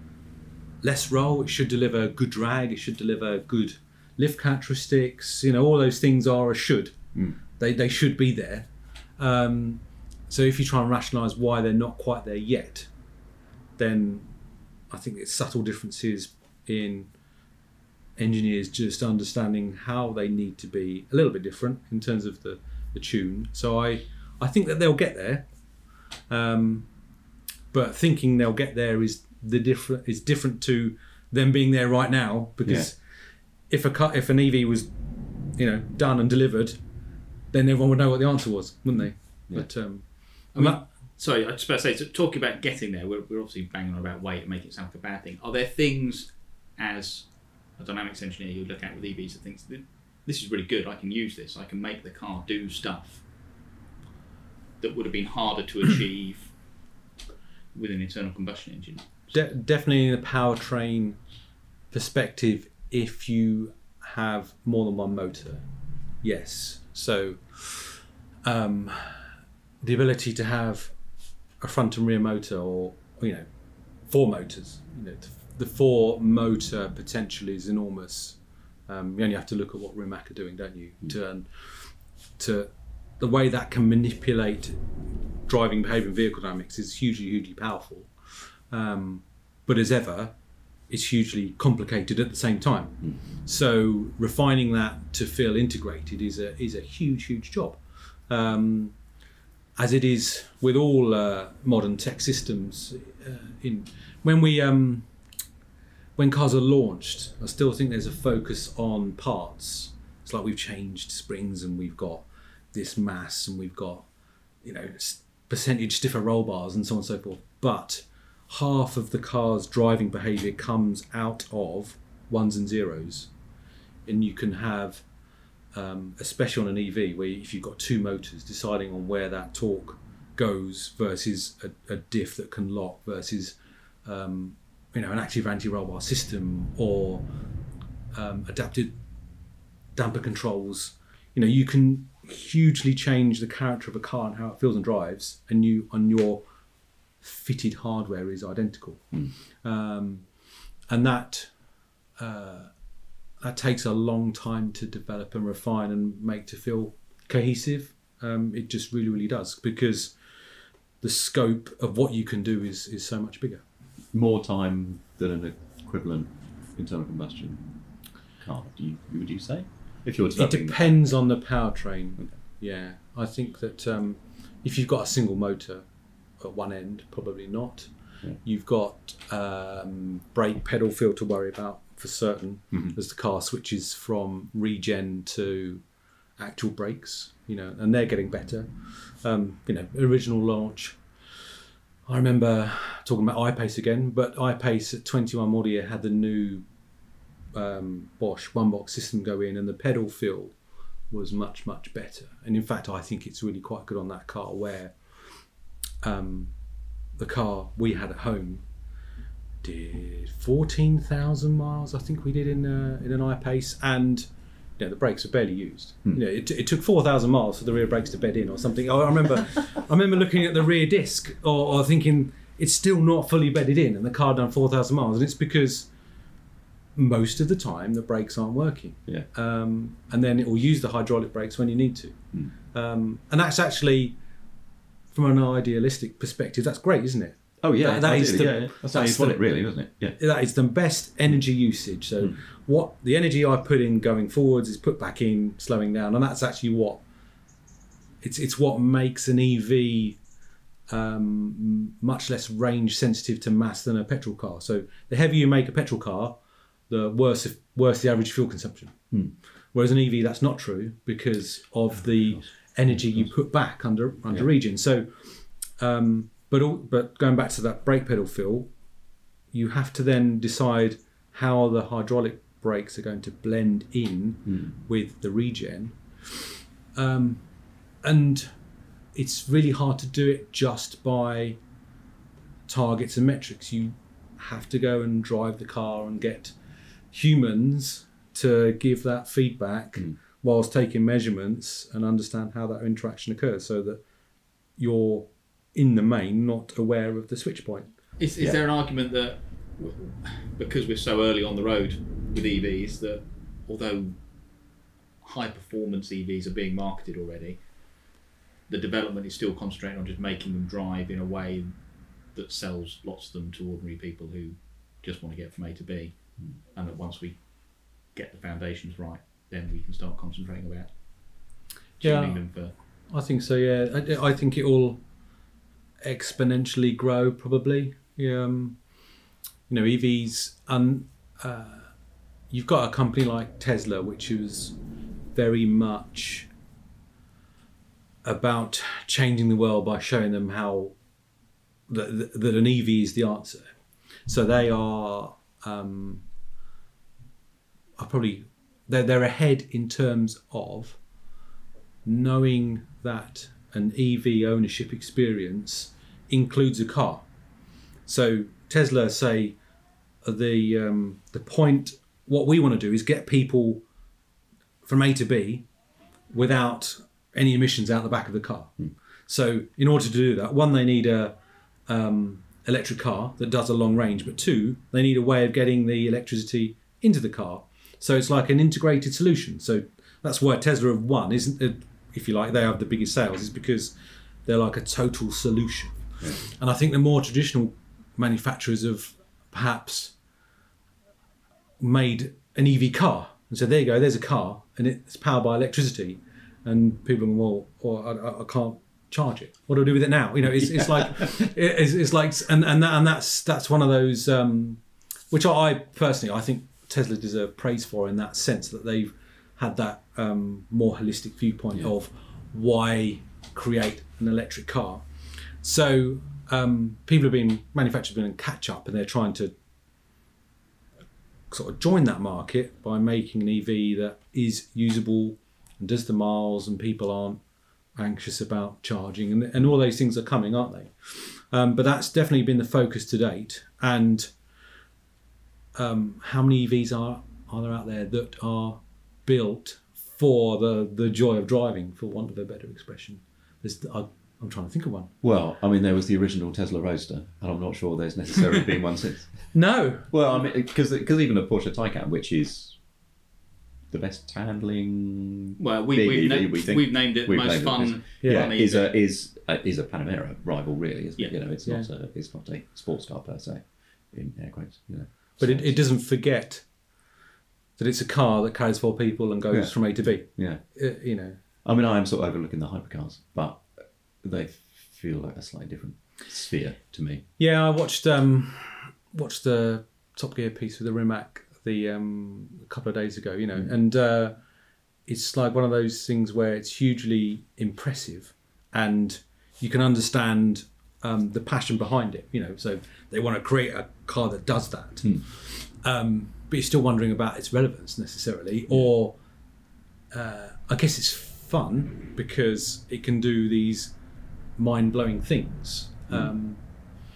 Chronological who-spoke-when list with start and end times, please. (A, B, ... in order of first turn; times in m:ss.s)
0:00.8-0:12.9 A
0:13.8-0:14.3 A
0:14.9-0:17.1 A
0:18.2-0:25.5 A
0:26.3-0:26.9 A
0:27.7-0:33.0 A
0:32.6-0:32.9 B
0:33.7-0:34.9 A
0:35.5-0:36.8 A
0:37.5-0:40.8 A
0:40.5-0:53.2 C
0:54.8-0:56.6 C
0:57.7-0:59.5 C
0:59.3-1:01.2 A
1:01.9-1:05.6 A
1:06.2-1:09.3 A
1:09.8-1:11.0 A
1:11.6-1:13.5 A
1:14.1-1:24.8 A
1:25.5-1:30.4 A
1:30.9-1:39.0 A
1:39.8-1:45.1 A
1:46.2-1:54.1 A
1:54.6-2:03.3 A
2:04.1-2:05.1 A
2:05.7-2:17.3 A
2:18.1-2:19.0 A
2:20.0-2:26.4 A
2:27.2-2:30.3 A
2:30.9-2:31.6 A
2:32.2-2:32.7 A
2:33.4-2:40.2 A
2:41.0-2:43.6 A
2:44.1-2:47.6 B
2:48.4-2:51.0 B
2:50.3-2:55.8 A
2:56.4-3:05.8 A
3:06.4-3:11.6 A
3:12.1-3:16.7 A
3:17.5-3:20.6 A
3:21.1-3:25.4 A
3:26.0-3:26.6 A
3:27.2-3:28.7 A
3:29.6-3:45.9 A
3:47.0-3:52.2 A
3:52.7-3:54.2 A
3:55.1-3:59.5 A
3:57.6-4:00.2 B
4:00.2-4:07.0 A
4:08.2-4:10.2 A
4:10.9-4:16.4 A
4:16.9-4:19.1 A
4:19.7-4:28.7 A
4:22.3-4:23.3 B
4:29.5-4:37.5 A
4:38.0-4:38.5 A
4:39.1-4:41.6 A
4:42.7-4:46.6 A
4:47.1-4:54.0 A
4:54.8-4:57.9 A
4:58.2-5:04.2 C
5:05.2-5:07.6 C
5:08.7-5:11.8 C
5:12.3-5:22.7 C
5:22.0-5:22.4 A
5:23.1-5:25.0 A
5:26.0-5:28.8 A
5:29.7-5:31.9 A
5:32.5-5:34.8 A
5:35.3-5:36.5 A
5:38.2-5:41.0 A
5:41.9-5:46.3 A
5:48.0-5:51.0 A
5:52.0-5:57.3 A
5:58.1-5:59.6 A
6:00.2-6:03.8 A
6:04.8-6:05.7 A
6:06.3-6:08.8 A
6:09.3-6:11.4 A
6:11.9-6:30.2 A
6:31.8-6:55.1 A
6:40.6-6:41.4 B
6:55.6-6:59.5 A
7:01.5-7:07.4 A
7:08.0-7:14.3 A
7:15.8-7:25.1 A
7:25.2-7:29.5 B
7:29.5-7:30.2 A
7:30.1-7:32.8 B
7:33.9-7:45.8 B
7:35.6-7:38.9 C
7:38.2-7:38.5 A
7:45.4-7:46.7 A
7:47.8-7:51.4 A
7:49.5-7:50.6 B
7:51.6-7:57.2 B
7:57.4-8:04.4 A
8:05.1-8:19.2 A
8:20.1-8:24.0 A
8:24.6-8:26.6 A